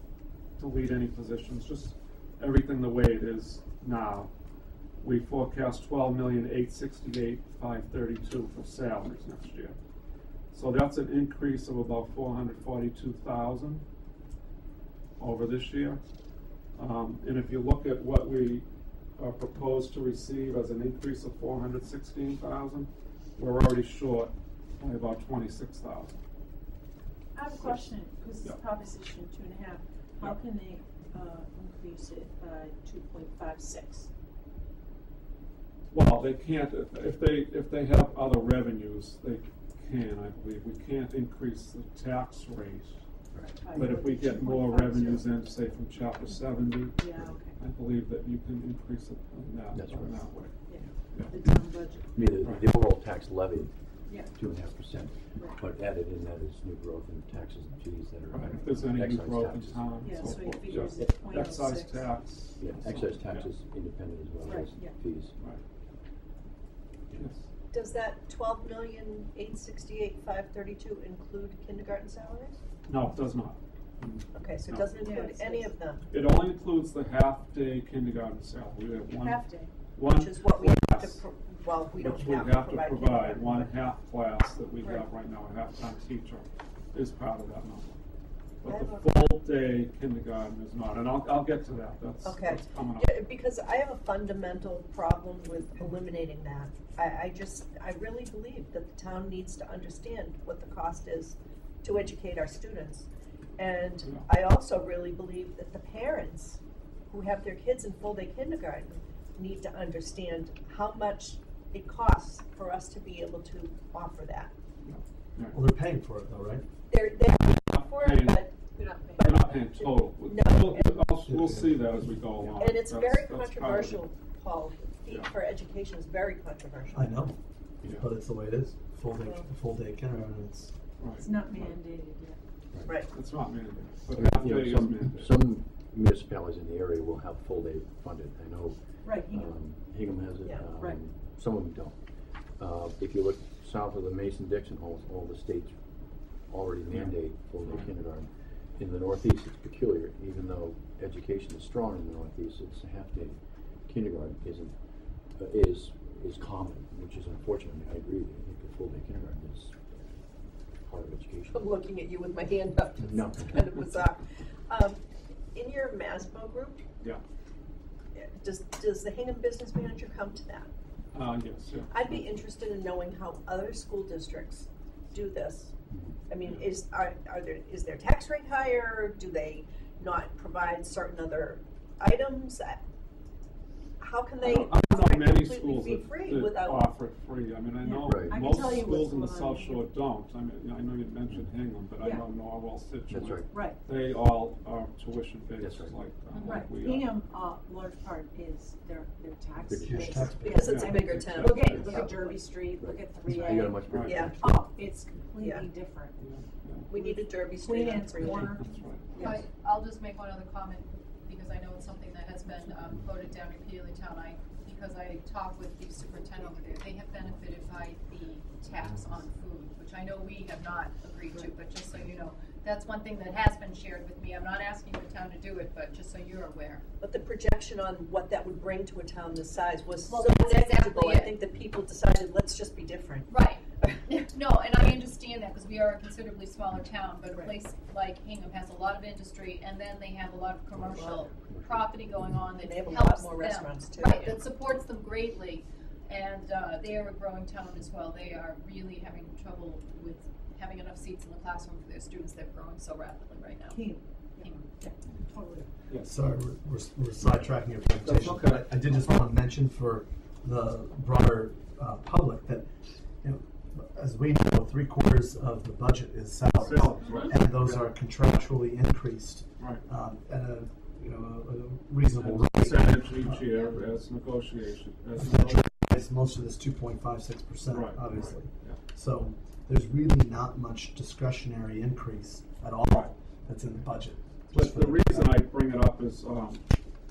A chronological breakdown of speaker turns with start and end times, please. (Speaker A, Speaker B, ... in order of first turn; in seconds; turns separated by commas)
Speaker A: 0.6-4.3, Speaker A: 5.0-9.8, Speaker A: 10.5-13.8, Speaker A: 15.2-16.0, Speaker A: 16.8-18.7, Speaker A: 19.2-26.2, Speaker B: 27.4-34.1, Speaker A: 35.9-43.0, Speaker B: 43.3-45.3, Speaker A: 43.8-47.0, Speaker B: 47.0-47.5, Speaker A: 47.6-50.5, Speaker C: 49.7-50.2, Speaker B: 50.7-52.1, Speaker A: 51.1-51.4, Speaker C: 52.1-53.7, Speaker B: 54.1-54.3, Speaker C: 54.3-60.0, Speaker A: 58.3-63.5, Speaker B: 60.0-62.1, Speaker C: 62.6-65.3, Speaker B: 64.4-64.9, Speaker A: 67.2-67.4, Speaker D: 67.7-72.6, Speaker A: 72.9-75.0, Speaker D: 74.3-76.1, Speaker B: 75.0-75.7, Speaker A: 76.1-79.4, Speaker B: 79.1-79.7, Speaker A: 79.9-81.2, Speaker D: 80.0-83.7, Speaker A: 82.0-88.0, Speaker A: 88.6-93.2, Speaker D: 88.7-89.3, Speaker D: 92.2-114.5, Speaker A: 114.8-115.6, Speaker E: 115.5-116.7, Speaker D: 116.9-121.0, Speaker A: 117.5-118.5, Speaker A: 119.2-124.1, Speaker E: 121.3-122.0, Speaker D: 122.6-127.3, Speaker E: 126.9-127.4, Speaker E: 127.9-130.7, Speaker A: 131.0-131.8, Speaker B: 131.2-132.4, Speaker D: 132.8-133.1, Speaker A: 133.1-135.4, Speaker C: 134.2-142.0, Speaker B: 139.0-139.5, Speaker D: 140.4-140.7, Speaker C: 142.6-145.8, Speaker C: 146.5-154.7, Speaker A: 146.9-147.9, Speaker C: 155.4-160.1, Speaker C: 160.9-161.7, Speaker D: 161.5-165.0, Speaker C: 163.0-163.8, Speaker D: 165.5-166.8, Speaker D: 168.2-170.7, Speaker A: 171.1-172.3, Speaker D: 171.9-175.8, Speaker C: 175.9-176.2, Speaker D: 176.3-182.8, Speaker D: 184.0-186.9, Speaker A: 184.4-197.1, Speaker B: 187.8-189.9, Speaker C: 188.1-188.6, Speaker B: 192.0-192.3, Speaker C: 193.1-193.8, Speaker B: 193.5-193.8, Speaker C: 195.6-196.5, Speaker F: 196.3-196.7, Speaker B: 196.5-203.8, Speaker C: 199.6-200.6, Speaker E: 199.9-201.2, Speaker D: 200.0-202.2, Speaker A: 200.6-202.4, Speaker C: 201.3-205.2, Speaker A: 203.8-204.3, Speaker D: 203.9-204.6, Speaker B: 204.6-206.1, Speaker D: 205.4-205.7, Speaker C: 205.8-206.2, Speaker A: 206.2-206.9, Speaker D: 206.9-208.6, Speaker B: 206.9-209.3, Speaker A: 208.2-209.4, Speaker F: 209.2-226.8, Speaker D: 227.0-233.3, Speaker F: 230.1-231.4, Speaker F: 233.3-253.8, Speaker C: 240.8-241.9, Speaker D: 240.9-241.2, Speaker D: 242.6-244.4, Speaker B: 253.7-255.7, Speaker A: 255.9-256.2, Speaker E: 256.0-262.7, Speaker A: 258.0-259.1, Speaker E: 263.2-273.8, Speaker A: 266.5-267.9, Speaker A: 272.2-275.7, Speaker E: 275.2-285.4, Speaker A: 277.7-278.8, Speaker A: 284.5-286.6